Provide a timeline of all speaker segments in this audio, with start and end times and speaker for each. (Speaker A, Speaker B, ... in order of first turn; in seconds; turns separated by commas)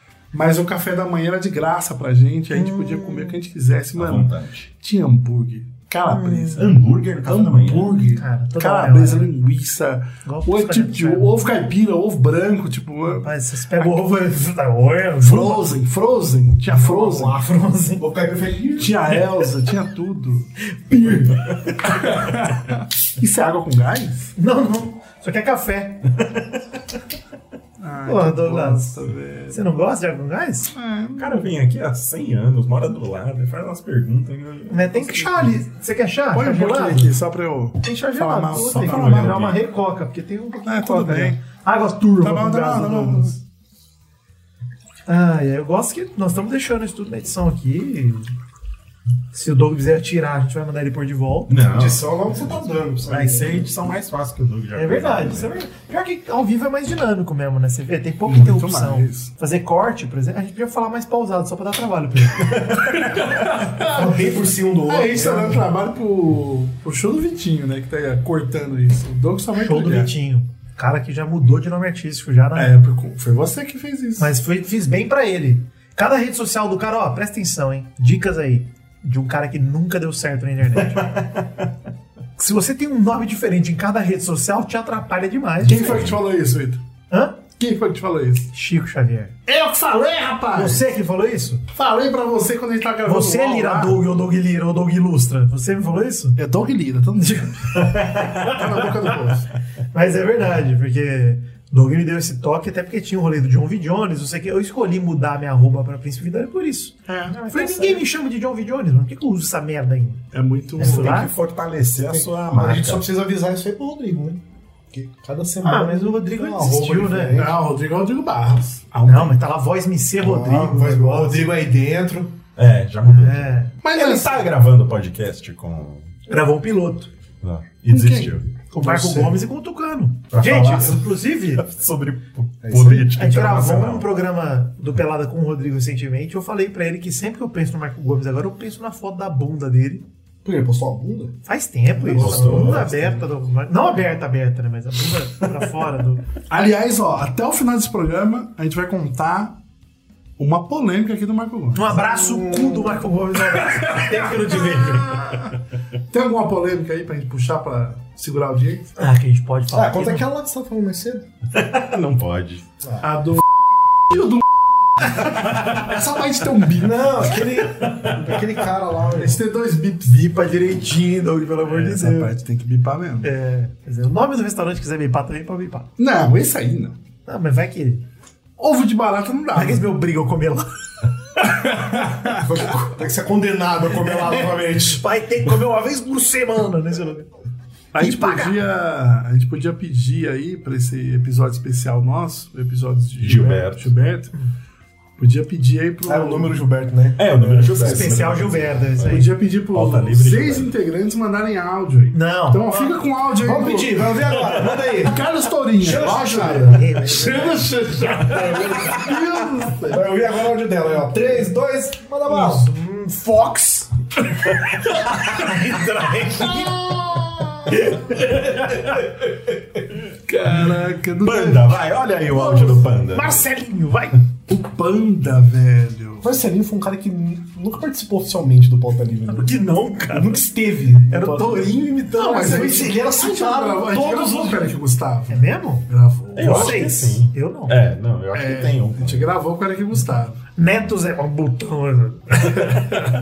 Speaker A: 0.3-13.3, Speaker B: 2.5-3.4, Speaker C: 3.9-4.7, Speaker B: 6.0-6.7, Speaker C: 6.5-8.1, Speaker B: 8.1-9.3, Speaker B: 10.2-11.3, Speaker B: 13.1-15.7, Speaker A: 15.2-17.3, Speaker D: 16.6-17.4, Speaker B: 16.7-18.0, Speaker D: 18.0-18.9, Speaker A: 18.8-20.5, Speaker B: 20.6-21.5, Speaker A: 21.8-24.3, Speaker B: 24.4-26.2, Speaker A: 27.8-29.6, Speaker B: 28.0-30.7, Speaker A: 30.7-31.4, Speaker C: 31.2-35.6, Speaker B: 34.7-37.1, Speaker A: 36.3-39.5, Speaker B: 37.8-43.4, Speaker C: 38.5-39.6, Speaker A: 40.6-41.4, Speaker A: 42.2-43.4, Speaker B: 45.1-48.3, Speaker B: 49.3-51.5, Speaker C: 51.5-55.5, Speaker D: 51.7-53.7, Speaker B: 54.7-63.0, Speaker A: 58.2-59.3, Speaker A: 63.3-64.1, Speaker D: 63.8-65.7, Speaker A: 64.8-70.1, Speaker B: 69.5-72.8, Speaker A: 72.5-74.3, Speaker B: 74.2-81.2, Speaker B: 82.4-86.1, Speaker A: 85.6-86.8, Speaker C: 85.7-86.2, Speaker B: 87.1-87.4, Speaker A: 87.5-88.5, Speaker B: 88.5-89.3, Speaker A: 89.5-90.9, Speaker B: 90.5-91.6, Speaker A: 91.7-94.0, Speaker B: 93.0-96.4, Speaker A: 96.3-99.5, Speaker B: 97.2-99.1, Speaker B: 99.9-110.2, Speaker A: 107.1-107.5, Speaker C: 107.5-108.0, Speaker A: 110.3-111.3, Speaker B: 110.8-111.3, Speaker C: 110.8-113.0, Speaker D: 112.0-117.6, Speaker B: 115.6-117.4, Speaker A: 117.3-119.4, Speaker B: 119.0-121.5, Speaker D: 120.2-122.4, Speaker C: 122.5-126.1, Speaker B: 123.1-123.7, Speaker A: 123.8-124.5, Speaker B: 126.3-127.1, Speaker C: 127.4-128.5, Speaker A: 127.9-128.4, Speaker B: 128.7-131.6, Speaker D: 128.8-129.4, Speaker C: 130.3-134.1, Speaker D: 132.6-133.2, Speaker B: 133.1-140.0, Speaker D: 140.4-141.3, Speaker B: 141.4-146.3, Speaker A: 142.1-143.1, Speaker C: 142.2-142.9, Speaker D: 142.3-142.8, Speaker A: 146.5-149.6, Speaker A: 150.4-151.9, Speaker B: 151.7-155.4, Speaker D: 151.9-153.0, Speaker A: 153.6-155.1, Speaker A: 156.1-158.9, Speaker B: 159.0-160.3, Speaker D: 159.7-161.3, Speaker C: 161.6-162.7, Speaker A: 163.0-163.4, Speaker A: 164.1-164.4, Speaker A: 165.1-167.2, Speaker D: 166.7-169.4, Speaker B: 167.3-168.2, Speaker A: 169.1-170.3, Speaker B: 170.0-172.3, Speaker A: 171.7-173.3, Speaker B: 173.2-175.9, Speaker A: 176.0-177.0, Speaker B: 177.3-178.0, Speaker A: 178.6-179.8, Speaker B: 179.5-180.7, Speaker A: 181.6-182.4, Speaker D: 182.3-185.0, Speaker B: 184.0-187.3, Speaker A: 187.9-194.3, Speaker B: 188.0-188.6, Speaker C: 193.2-193.9, Speaker A: 195.2-196.6, Speaker D: 196.0-198.3, Speaker C: 197.2-200.7, Speaker B: 197.8-199.3, Speaker A: 199.0-204.1, Speaker B: 202.1-203.0, Speaker D: 203.4-205.2, Speaker A: 204.9-210.0, Speaker D: 205.8-206.8, Speaker B: 206.4-208.6, Speaker D: 209.9-212.7, Speaker B: 212.3-213.9, Speaker B: 215.1-216.9, Speaker D: 216.4-216.9, Speaker B: 217.7-218.3, Speaker C: 218.2-220.0, Speaker A: 220.3-222.7, Speaker C: 221.2-223.4, Speaker B: 222.3-224.2, Speaker A: 224.5-226.2, Speaker D: 226.2-229.6, Speaker B: 229.3-230.5, Speaker D: 230.1-231.8, Speaker B: 231.1-234.7, Speaker A: 232.1-236.9, Speaker D: 232.4-233.8, Speaker B: 235.3-237.7, Speaker C: 236.3-239.3, Speaker A: 238.3-240.4, Speaker B: 240.6-242.8